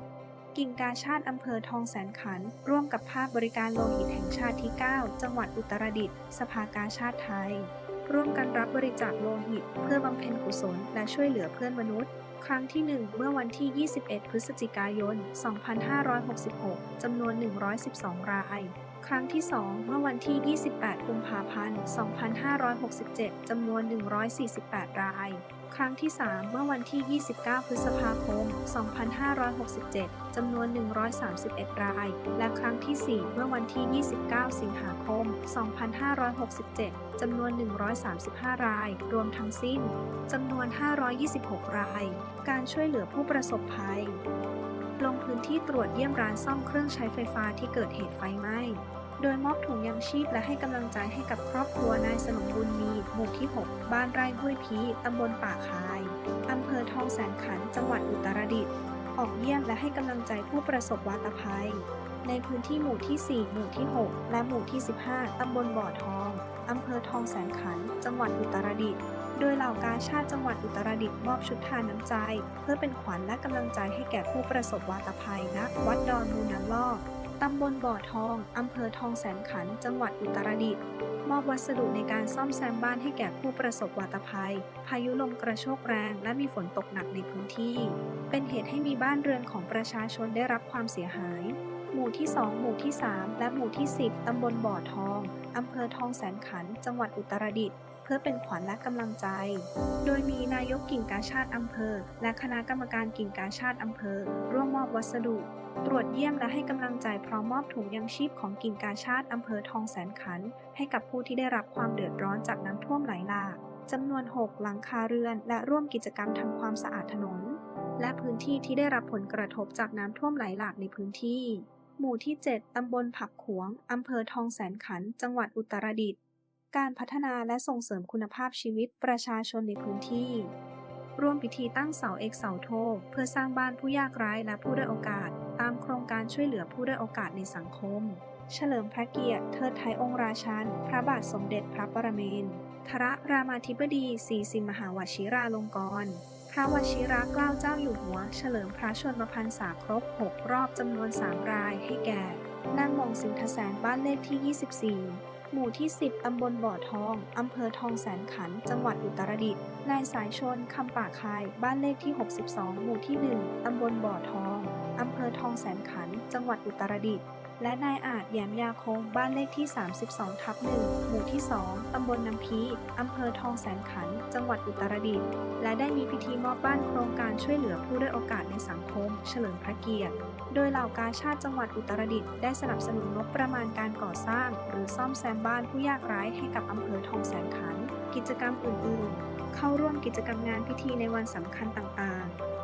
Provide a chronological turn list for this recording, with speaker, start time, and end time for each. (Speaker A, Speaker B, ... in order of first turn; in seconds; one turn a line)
Speaker A: 0.5-44.2
Speaker A: 45.0-126.2
Speaker A: 126.7-130.5
Speaker A: 131.2-192.4